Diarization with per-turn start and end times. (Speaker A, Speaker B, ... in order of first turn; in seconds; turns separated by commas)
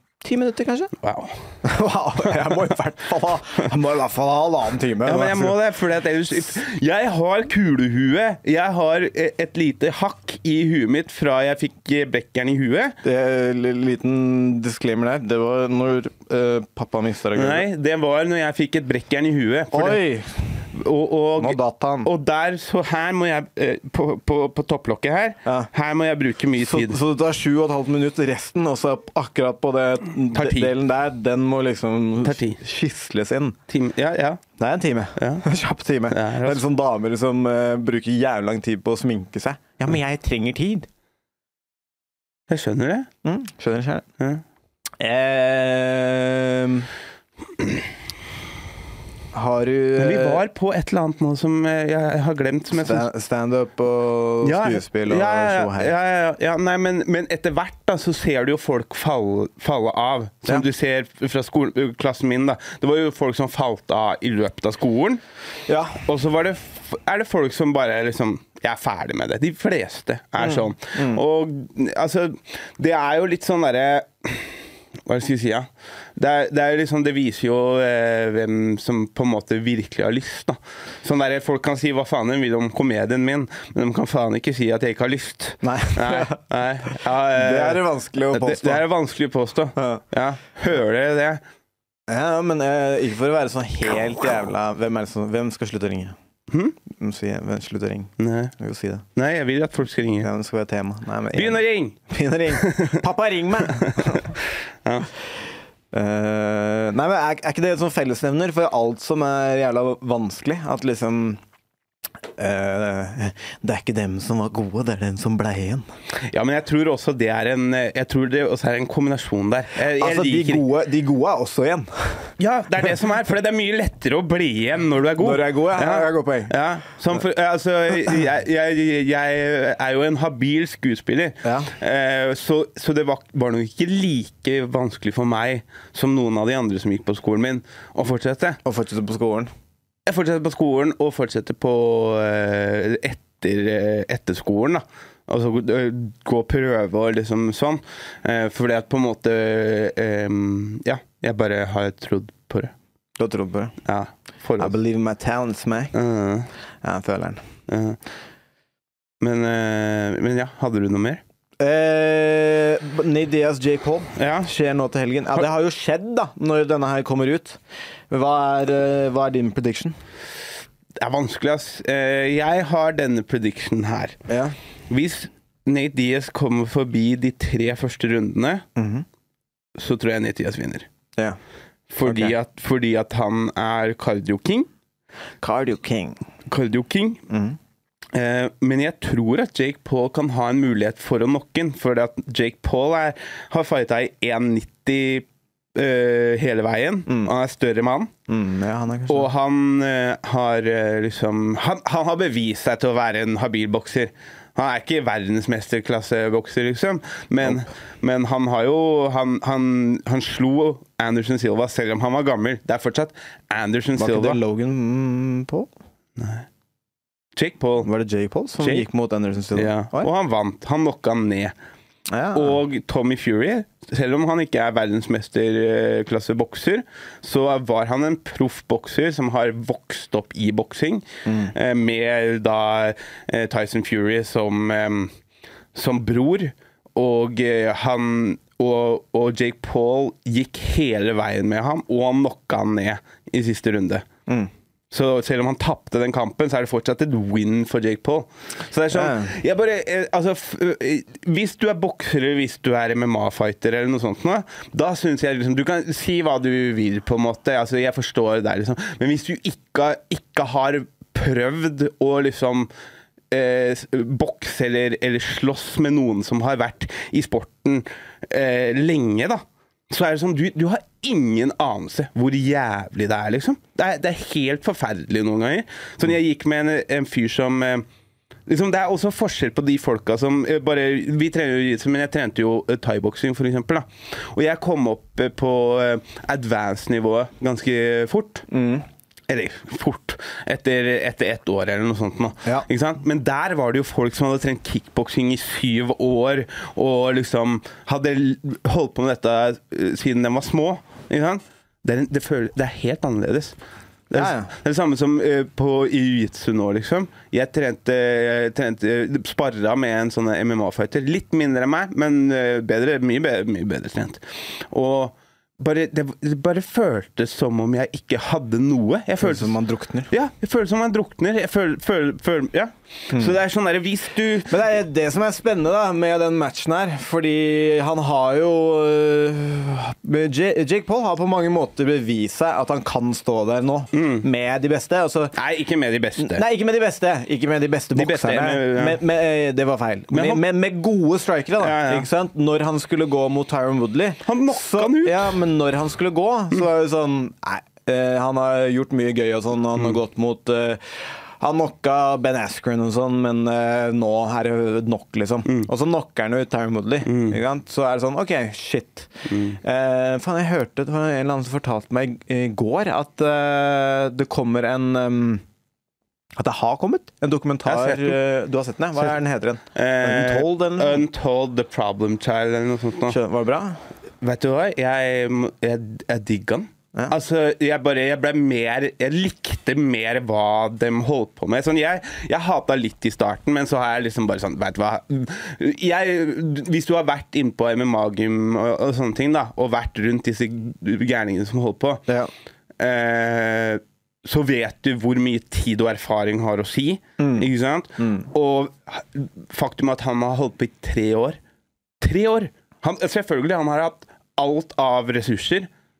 Speaker A: 0.2-0.9, Speaker B: 1.0-1.3, Speaker A: 1.6-5.6, Speaker B: 5.0-12.9, Speaker A: 13.0-17.6, Speaker B: 17.3-20.0, Speaker A: 19.7-20.6, Speaker B: 20.7-27.0, Speaker A: 21.4-22.1, Speaker A: 25.4-25.7, Speaker A: 26.6-33.6, Speaker B: 30.3-30.7, Speaker B: 32.2-32.6, Speaker B: 33.7-34.4, Speaker A: 34.6-40.9, Speaker B: 35.2-35.4, Speaker B: 36.1-36.6, Speaker B: 42.5-43.1, Speaker A: 43.2-44.0, Speaker A: 45.0-46.9, Speaker A: 49.3-50.4, Speaker B: 50.0-53.1, Speaker A: 52.7-55.9, Speaker B: 54.4-65.2, Speaker A: 65.7-66.0, Speaker B: 66.0-91.4, Speaker A: 70.4-71.2, Speaker A: 85.6-86.4, Speaker A: 87.1-88.8, Speaker A: 89.8-90.0, Speaker A: 92.1-96.2, Speaker A: 96.9-99.0, Speaker B: 98.2-98.5, Speaker B: 99.2-100.3, Speaker A: 100.2-104.3, Speaker B: 101.3-102.0, Speaker B: 102.5-103.0, Speaker B: 103.7-104.2, Speaker A: 105.9-111.4, Speaker A: 112.4-115.8, Speaker B: 116.3-120.6, Speaker A: 119.8-122.3, Speaker B: 122.4-138.6, Speaker A: 125.2-126.5, Speaker A: 131.4-131.7, Speaker A: 138.6-139.5, Speaker B: 140.1-152.7, Speaker A: 153.2-153.7, Speaker B: 153.8-154.8, Speaker A: 154.6-155.9, Speaker B: 155.9-156.5, Speaker A: 156.8-157.4, Speaker B: 157.7-158.0, Speaker B: 159.2-161.2, Speaker A: 161.6-170.0, Speaker B: 164.2-164.5, Speaker B: 171.0-174.2, Speaker A: 174.3-174.5, Speaker B: 174.9-178.6, Speaker A: 178.8-179.0, Speaker B: 179.8-180.9, Speaker B: 181.9-184.7, Speaker A: 182.0-182.3, Speaker A: 185.4-186.2, Speaker B: 186.5-187.2, Speaker A: 187.3-187.6, Speaker B: 188.1-198.1, Speaker A: 197.1-197.3, Speaker A: 198.3-199.3, Speaker B: 199.1-214.4, Speaker A: 213.9-215.7, Speaker B: 216.2-216.4, Speaker B: 217.3-217.9, Speaker A: 217.8-220.1, Speaker B: 218.6-218.9, Speaker B: 219.5-221.5, Speaker A: 222.1-222.6, Speaker B: 222.3-235.1, Speaker A: 231.2-231.5, Speaker B: 235.7-244.0, Speaker B: 244.9-262.7, Speaker A: 248.9-249.3, Speaker B: 263.3-277.8, Speaker B: 278.5-288.5, Speaker A: 288.5-288.8, Speaker B: 289.3-303.5, Speaker B: 304.1-319.6, Speaker A: 304.1-304.5, Speaker A: 319.2-320.1, Speaker B: 320.1-324.5, Speaker A: 323.1-323.4, Speaker A: 324.5-335.3, Speaker B: 333.9-334.2, Speaker B: 335.3-336.4, Speaker A: 336.2-365.4, Speaker B: 337.9-339.0, Speaker B: 340.1-340.4, Speaker B: 341.6-342.1, Speaker B: 344.2-345.4, Speaker B: 357.0-357.4, Speaker B: 359.3-359.6, Speaker A: 366.3-371.0, Speaker B: 367.6-368.2, Speaker B: 369.7-373.2, Speaker A: 373.1-373.8, Speaker B: 374.2-392.0, Speaker B: 392.8-401.4, Speaker A: 397.2-398.3, Speaker B: 402.0-405.7